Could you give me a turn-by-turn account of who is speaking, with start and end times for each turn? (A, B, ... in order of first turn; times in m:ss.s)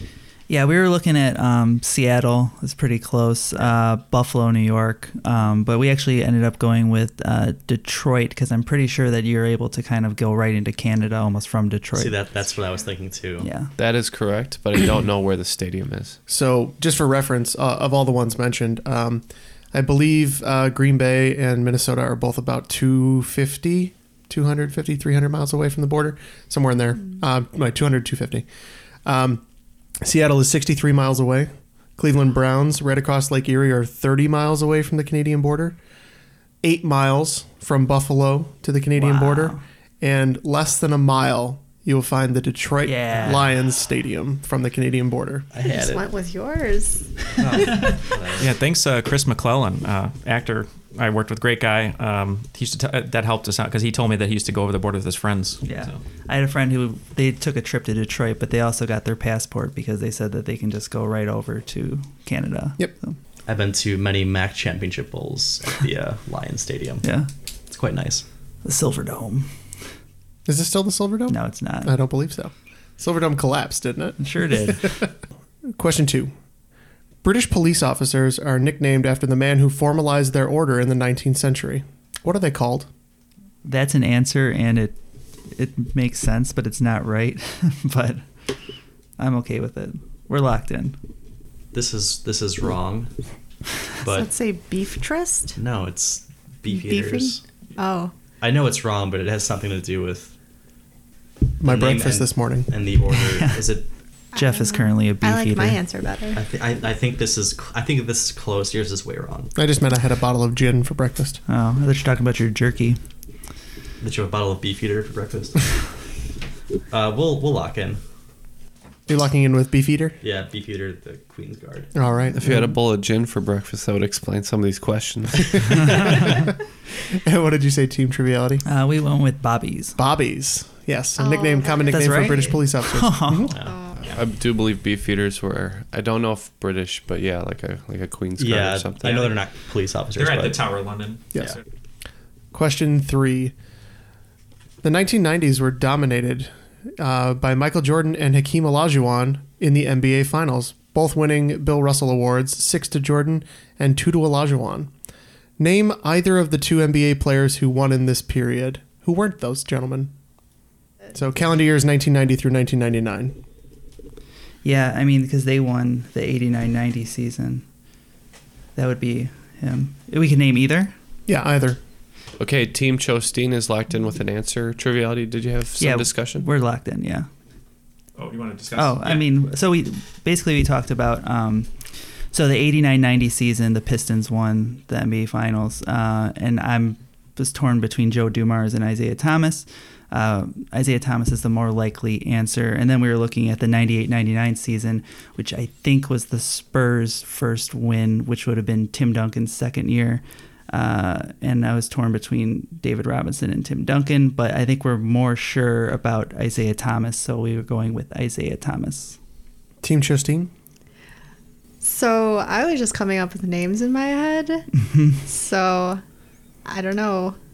0:00.5-0:12.2 A
0:11.9-0:13.5 B
0:13.4-0:13.7 A
0:13.8-0:16.2 C
0:16.3-0:28.4 D
0:29.0-0:29.4 D
0:30.0-0:35.8 D
0:36.6-0:45.5 D
0:38.9-0:39.6 A
0:42.8-0:43.5 A
0:45.5-0:46.0 B
0:45.6-0:48.0 E
0:47.4-0:48.6 B
0:48.4-0:56.0 F
0:55.6-1:03.2 A
1:03.4-1:07.0 B
1:07.0-1:07.3 A
1:07.7-1:08.2 B
1:08.6-1:09.5 A
1:10.4-1:15.1 D
1:11.3-1:12.0 A
1:14.2-1:15.1 A
1:15.7-1:16.3 D
1:17.2-1:22.9 D
1:23.6-1:25.0 A
1:25.5-1:28.2 A
1:29.2-1:31.0 A
1:31.7-1:33.1 B
1:34.0-1:35.6 E
1:35.6-1:37.4 B
1:36.7-1:38.1 E
1:38.4-1:40.3 B
1:41.6-1:42.7 D
1:41.6-1:43.8 B
1:43.1-1:43.6 A
1:44.3-1:46.4 E
1:44.3-1:45.8 A
1:46.3-1:49.5 B
1:49.6-1:51.4 D
1:51.5-1:53.0 A
1:54.0-1:55.7 B
1:56.9-1:58.0 B
1:59.1-2:00.2 D
2:00.2-2:01.9 B
2:01.9-2:02.4 D
2:02.4-2:06.2 C
2:02.4-2:02.7 A
2:07.1-2:08.6 D
2:08.6-2:10.0 A
2:10.0-2:13.6 D
2:11.2-2:12.6 E
2:11.9-2:13.5 A
2:13.5-2:13.8 B
2:13.6-2:14.0 E
2:14.1-2:19.3 C
2:18.4-2:20.7 B
2:20.1-2:21.5 F
2:22.5-2:23.5 D
2:24.8-2:34.9 D
2:35.6-2:40.1 D
2:41.1-2:43.4 D
2:44.6-2:47.6 A
2:48.7-2:50.9 A
2:51.3-2:51.8 D
2:52.4-2:56.5 C
2:55.8-2:57.3 A
2:58.2-2:59.2 F
2:58.8-3:29.2 A
3:29.8-3:30.5 D
3:31.8-3:34.7 E
3:35.2-3:36.0 E
3:36.6-3:37.4 E